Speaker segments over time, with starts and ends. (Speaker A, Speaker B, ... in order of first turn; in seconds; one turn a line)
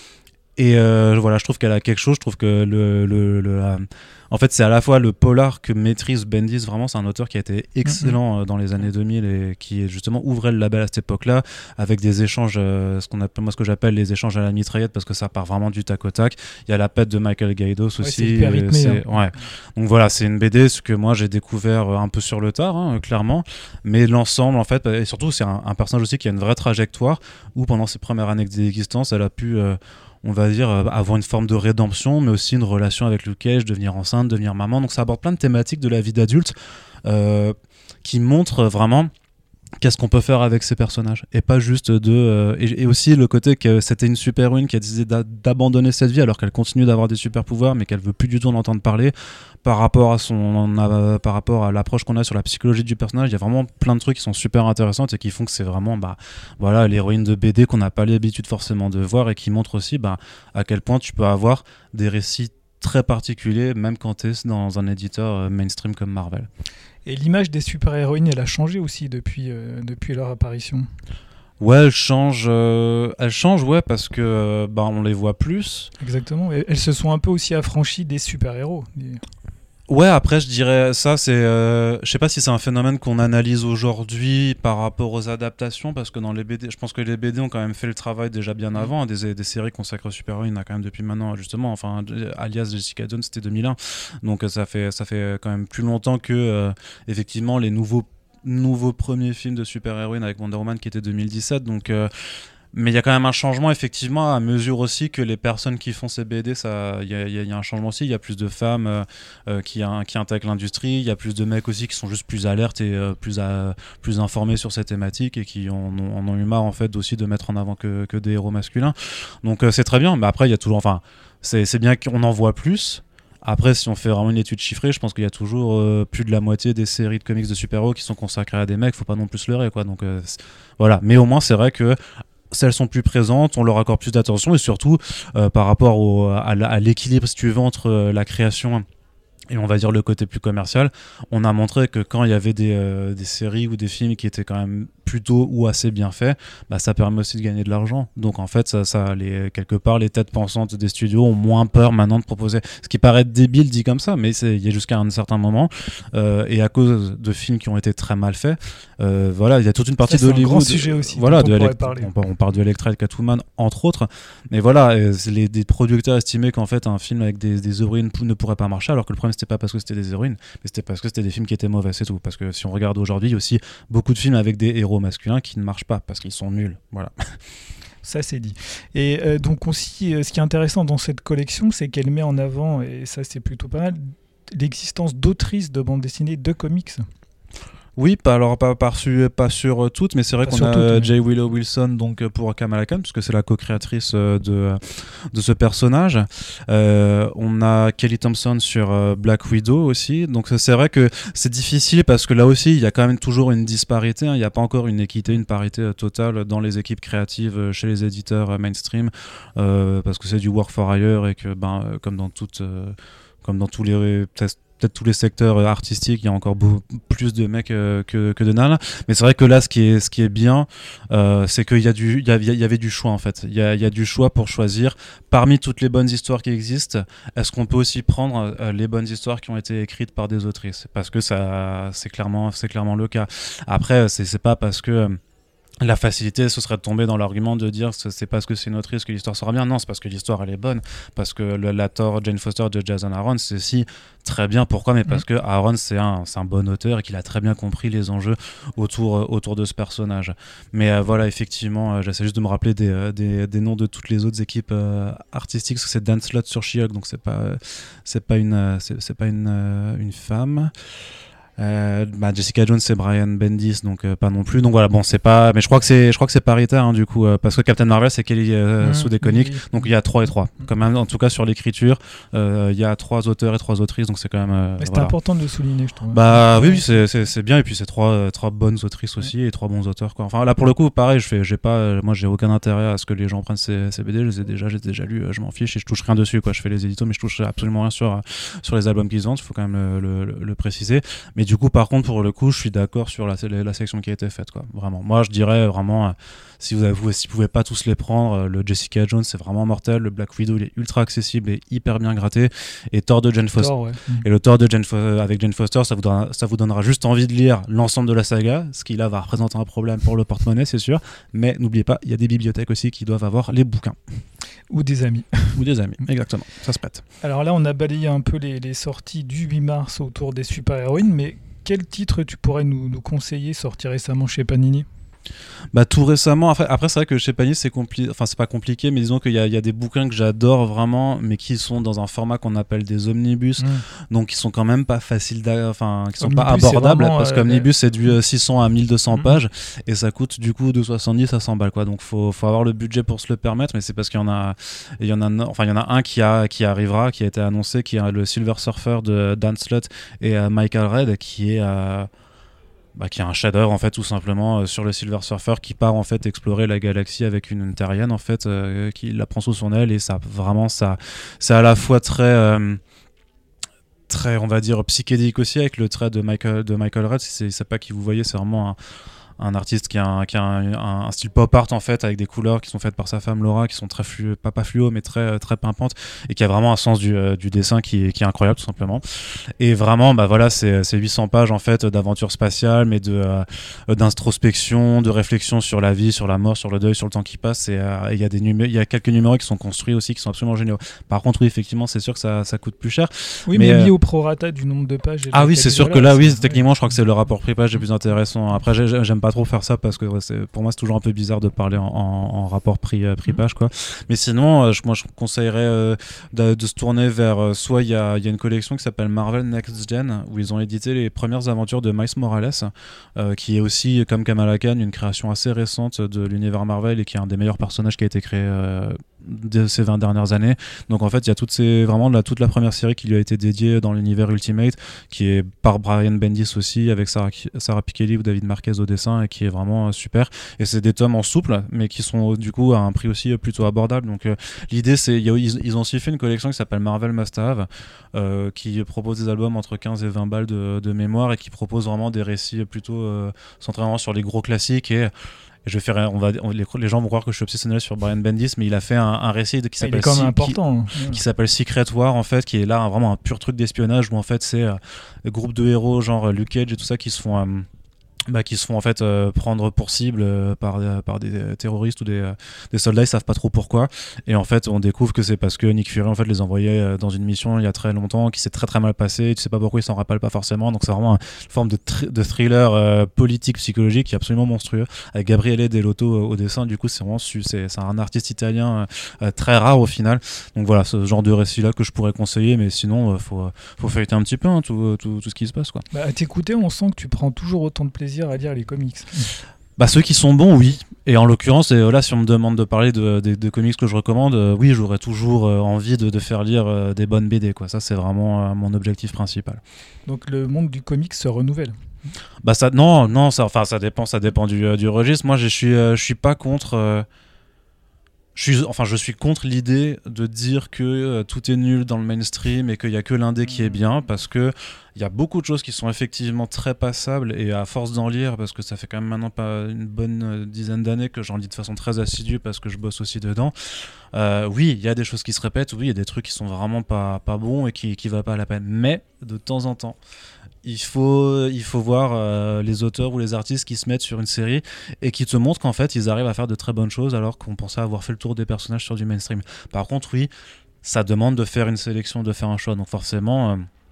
Speaker A: 0.6-36.5
Speaker B: 7.8-8.2
Speaker B: 18.0-19.0
Speaker A: 37.0-39.1
Speaker A: 39.8-66.5
Speaker B: 67.0-70.8
Speaker A: 71.6-75.9
Speaker B: 76.0-79.2
Speaker A: 79.9-102.1
Speaker A: 102.7-132.0
Speaker A: 132.5-138.8
Speaker A: 139.5-177.1
Speaker B: 160.0-162.1
Speaker B: 178.0-187.0
Speaker A: 188.0-194.8
Speaker B: 190.4-191.1
Speaker A: 195.3-235.2
Speaker A: 235.8-260.7
Speaker A: 261.6-275.1
Speaker B: 268.8-269.9
Speaker B: 274.8-276.9
Speaker A: 276.1-314.0
Speaker B: 303.6-304.2
Speaker B: 314.7-315.6
Speaker A: 315.6-317.0
Speaker B: 317.2-324.9
Speaker A: 325.7-352.1
Speaker B: 336.2-338.1
Speaker A: 353.0-362.8
Speaker A: 364.1-368.8
Speaker A: 369.4-379.0
Speaker A: 379.6-393.9
Speaker B: 393.5-396.6
Speaker A: 395.3-445.1
Speaker A: 445.6-457.6
Speaker B: 449.8-451.2
Speaker A: 458.3-485.8
Speaker B: 485.9-489.3
Speaker A: 489.8-499.6
Speaker B: 500.1-501.8
Speaker A: 502.4-507.1
Speaker A: 508.4-523.5
Speaker A: 524.1-530.0
Speaker A: 530.6-540.3
Speaker A: 540.8-543.6